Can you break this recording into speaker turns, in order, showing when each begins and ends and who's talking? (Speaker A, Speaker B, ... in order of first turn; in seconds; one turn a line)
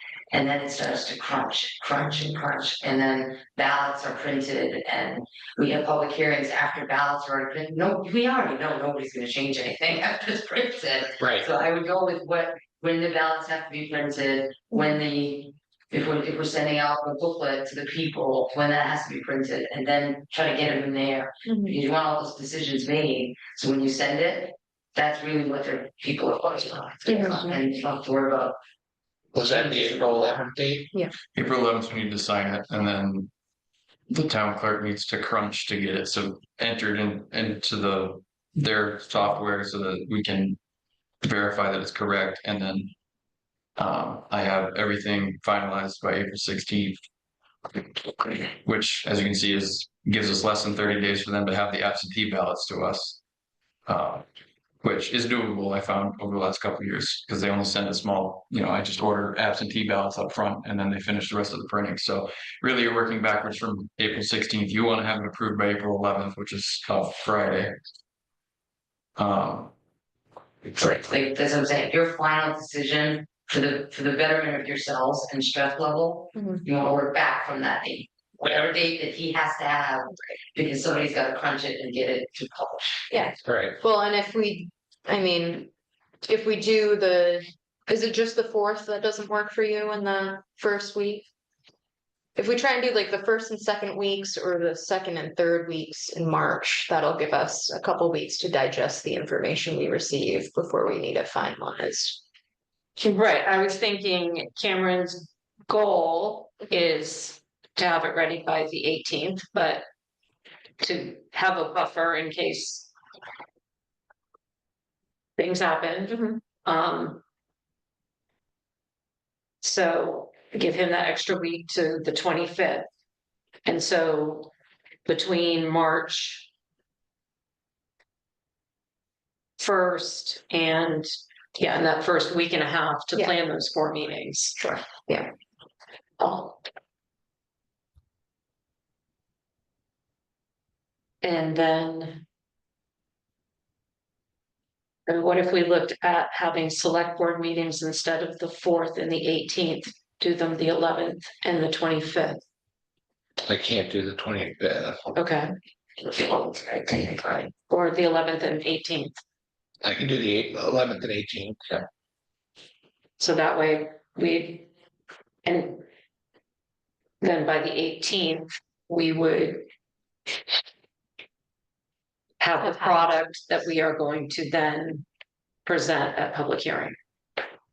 Speaker A: 0.3-28.6
Speaker B: 11.2-11.5
Speaker C: 21.5-21.8
Speaker C: 27.1-27.6
Speaker B: 29.3-30.9
Speaker D: 31.4-33.3
Speaker D: 34.1-40.6
Speaker D: 41.2-42.9
Speaker D: 43.8-47.0
Speaker D: 48.2-53.2
Speaker D: 53.9-54.2
Speaker D: 54.8-67.8
Speaker D: 69.2-69.7
Speaker A: 70.8-83.1
Speaker C: 76.3-76.6
Speaker C: 83.1-85.7
Speaker B: 83.4-83.8
Speaker C: 86.3-91.3
Speaker C: 92.4-102.2
Speaker E: 103.0-109.8
Speaker E: 110.8-112.9
Speaker E: 115.4-117.2
Speaker C: 116.1-116.4
Speaker E: 119.6-122.9
Speaker E: 123.7-124.5
Speaker E: 125.1-126.5
Speaker E: 129.6-134.6
Speaker C: 134.6-135.3
Speaker E: 136.2-136.6
Speaker E: 141.2-142.2
Speaker E: 145.1-152.4
Speaker B: 153.4-155.0
Speaker E: 155.1-155.5
Speaker E: 156.2-159.2
Speaker B: 159.8-161.9
Speaker E: 163.2-164.7
Speaker E: 165.4-165.8
Speaker E: 167.2-169.7
Speaker E: 172.4-175.1
Speaker C: 172.6-173.1
Speaker E: 175.7-177.0